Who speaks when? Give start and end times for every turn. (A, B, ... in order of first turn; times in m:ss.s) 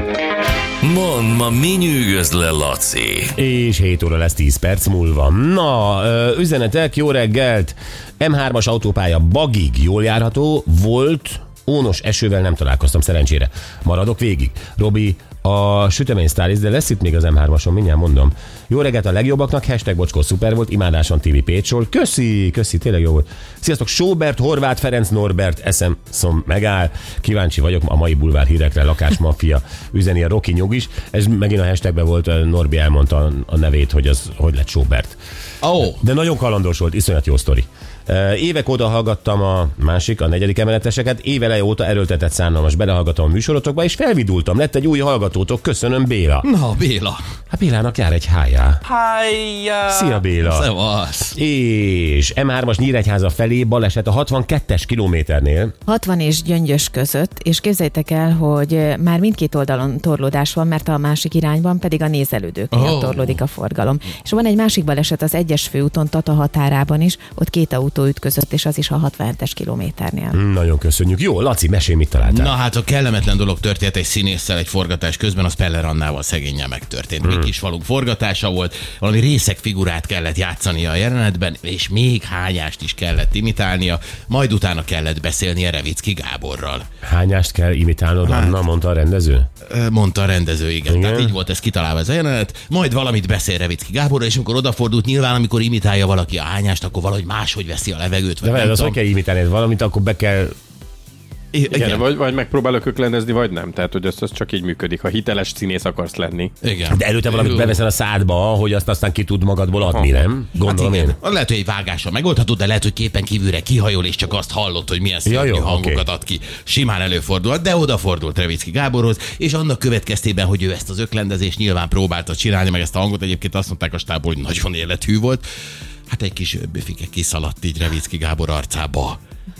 0:00.8-0:03.3 A
0:03.3-0:35.2 B
0:35.6-0:36.0 C
0:35.9-0:46.5 B
0:46.4-0:47.2 C
0:47.5-0:48.8 B
0:48.9-0:51.4 C
0:49.8-0:50.7 B
0:51.4-0:55.7 B
0:55.9-1:10.4 D
1:02.7-1:03.4 C
1:10.3-1:12.5 B
1:12.2-1:26.9 C
1:17.2-1:17.5 B
1:27.0-1:29.5 B
1:28.2-1:28.6 C
1:29.6-1:39.0 C
1:30.9-1:31.3 B
1:38.4-1:40.5 B
1:41.5-1:42.0 C
1:41.7-1:46.5 E
1:46.6-1:47.8 C
1:46.9-1:51.2 B
1:50.6-2:05.4 C
1:55.2-1:56.0 B
2:06.1-2:09.2 C